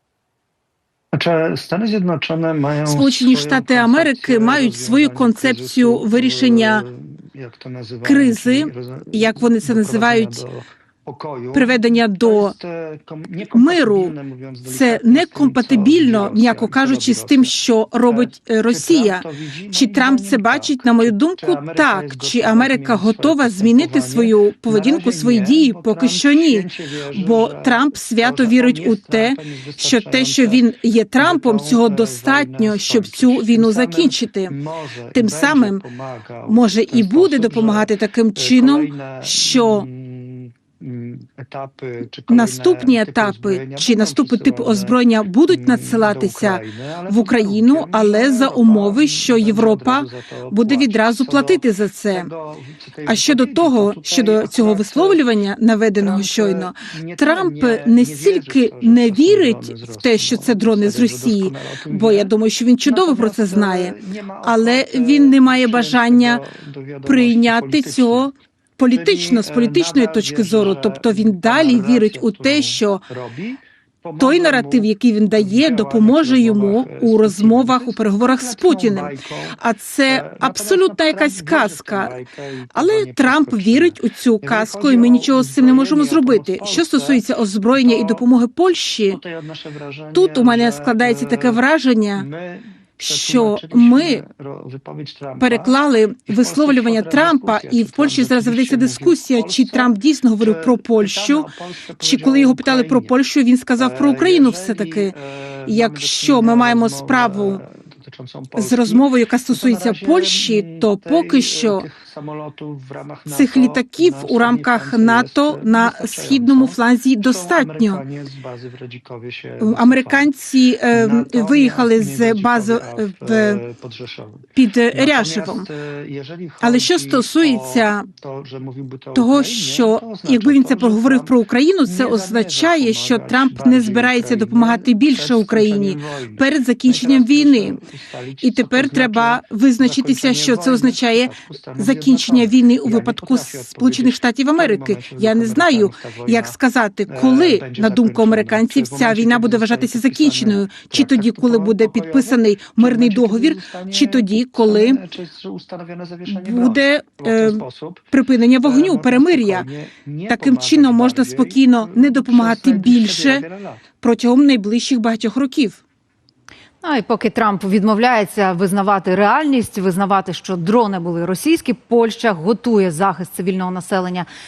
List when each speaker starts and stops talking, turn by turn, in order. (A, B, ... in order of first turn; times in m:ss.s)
0:01.1-0:17.5 A
0:02.9-0:06.8 B
0:08.0-0:10.4 B
0:11.5-0:12.5 B
0:13.5-0:34.5 B
0:18.1-0:30.6 A
0:31.2-0:51.6 A
0:35.1-0:35.8 B
0:36.5-0:39.8 B
0:42.3-0:52.2 B
0:52.1-0:55.3 A
0:53.1-1:06.4 B
0:56.0-1:02.3 A
1:02.8-1:08.3 A
1:07.0-1:13.0 B
1:08.9-1:19.5 A
1:14.2-1:22.2 B
1:20.1-1:27.2 A
1:22.7-1:29.2 B
1:27.7-1:28.2 A
1:29.1-1:31.6 A
1:30.1-1:32.2 B
1:32.2-1:35.7 A
1:33.0-1:34.2 B
1:35.4-1:41.5 B
1:36.3-1:43.1 A
1:42.0-1:45.1 B
1:43.8-2:00.2 A
1:45.7-1:47.6 B
1:48.6-1:51.8 B
1:53.3-1:58.0 B
1:59.6-2:03.6 B
2:00.9-2:11.3 A
2:04.5-2:05.6 B
2:06.6-2:08.1 B
2:09.1-2:17.8 B
2:11.9-2:26.6 A
2:18.4-2:35.0 B
2:27.1-2:38.1 A
2:36.3-2:37.6 B
2:38.1-2:39.7 B
2:38.6-2:43.8 A
2:40.3-2:43.4 B
2:44.0-2:45.8 B
2:46.9-2:54.2 C